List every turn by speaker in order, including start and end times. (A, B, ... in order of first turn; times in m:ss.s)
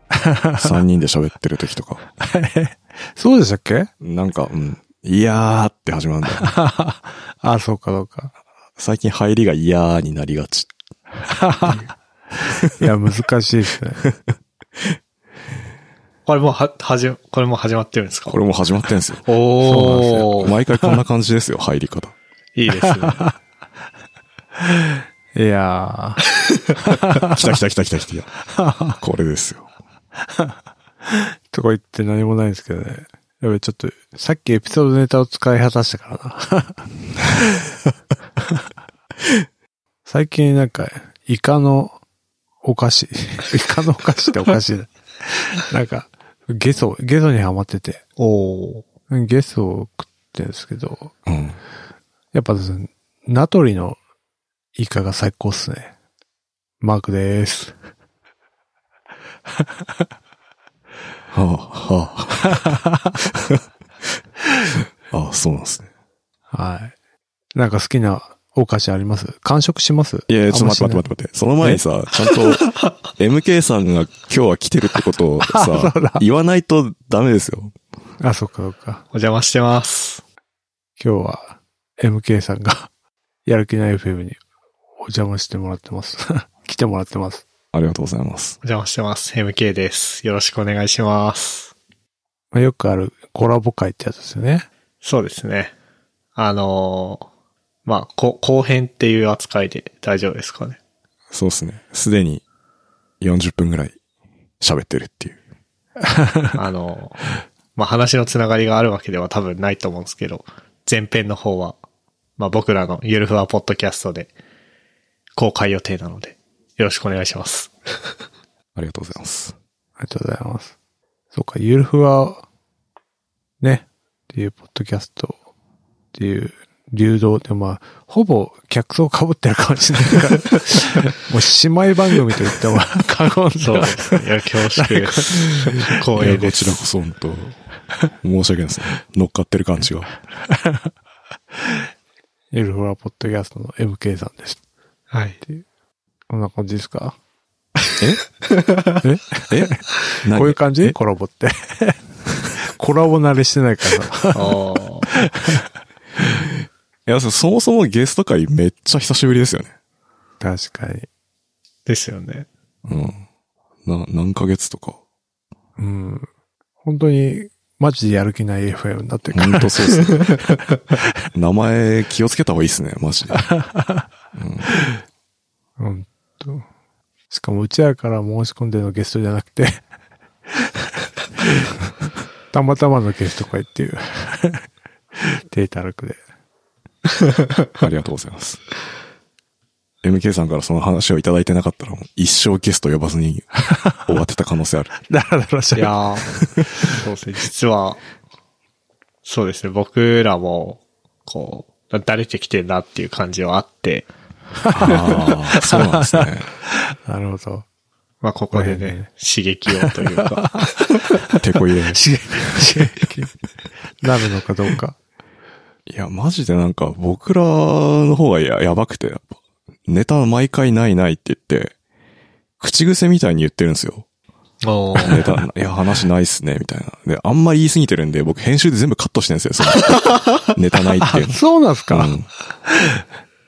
0:00.2-0:00.8 A
0:00.6-0:02.0 B
0:02.2-0:03.9 A
0:04.0-0:06.5 B
0:06.4-0:08.3 A
0:08.8-0:10.7 B
0:11.3-0:11.8 A
0:12.7-0:14.0 A
0:16.3-0:18.4 C
0:18.3-0:19.3 B
0:19.3-0:20.5 C
0:19.6-0:21.0 A
0:20.2-0:22.2 B
0:22.6-0:23.3 C
0:22.7-0:23.3 A
0:24.8-0:26.2 A
0:26.9-0:27.4 A
0:27.3-0:28.3 B
0:28.6-0:29.0 A
0:29.0-0:29.7 B
0:31.1-0:36.8 A
0:40.1-0:42.0 A
0:42.6-0:48.0 A
0:48.2-0:48.8 C
0:49.1-0:51.1 A
0:51.3-0:51.6 B
0:52.3-0:54.0 A
0:54.8-0:55.9 A
0:56.8-0:57.8 A
1:01.3-1:03.6 B
1:05.1-1:05.9 B
1:06.5-1:06.9 A
1:07.5-1:11.0 A
1:10.3-1:17.8 B
1:15.4-1:16.2 A
1:18.2-1:19.0 A
1:19.1-1:20.2 C
1:21.0-1:22.9 A
1:23.4-1:24.4 A
1:25.0-1:27.4 A
1:27.7-1:28.6 B
1:28.6-1:31.7 C
1:32.5-1:34.7 A
1:35.0-1:35.7 C
1:36.4-1:37.3 C
1:37.9-1:40.8 C
1:41.3-1:42.4 B
1:43.2-1:44.0 B
1:44.6-1:45.4 B
1:46.0-1:46.6 A
1:46.6-1:47.2 C
1:47.8-1:51.8 C
1:52.4-1:54.3 C
1:55.4-1:57.7 C
1:58.8-1:59.6 B
2:00.0-2:00.7 A
2:01.3-2:02.4 A
2:03.6-2:05.4 A
2:06.1-2:14.2 A
2:13.6-2:16.8 C
2:14.8-2:16.3 A
2:16.2-2:17.6 B
2:18.2-2:20.1 B
2:20.5-2:20.8 A
2:22.5-2:24.6 A
2:25.1-2:25.4 C
2:26.3-2:27.2 A
2:29.0-2:32.0 A
2:29.2-2:31.0 B
2:32.6-2:34.6 A
2:34.3-2:35.1 C
2:35.1-2:35.6 A
2:37.1-2:39.7 B
2:40.4-2:41.1 A
2:41.9-2:42.5 C
2:42.9-2:43.2 B
2:43.8-2:45.0 B
2:45.8-2:46.3 A
2:46.8-2:50.1 A
2:49.3-2:50.2 B
2:51.3-2:53.5 B
2:53.6-2:54.0 A
2:54.3-2:54.7 B
2:55.8-2:56.7 A
2:57.3-2:59.8 A
3:02.5-3:04.6 A
3:05.2-3:06.2 A
3:07.8-3:08.6 B
3:10.0-3:13.5 B
3:13.8-3:14.1 A
3:14.0-3:14.9 B
3:15.1-3:16.0 A
3:15.8-3:18.0 C
3:19.2-3:24.1 C
3:24.7-3:26.5 B
3:25.7-3:26.3 A
3:26.9-3:27.6 A
3:28.2-3:31.0 C
3:28.5-3:29.1 A
3:29.8-3:30.7 A
3:31.4-3:32.0 B
3:31.9-3:33.3 A
3:34.0-3:35.0 A
3:35.9-3:39.3 B
3:39.9-3:41.7 B
3:42.6-3:44.1 B
3:44.6-3:45.2 C
3:45.0-3:51.4 B
3:51.0-3:52.2 A
3:51.9-3:52.3 B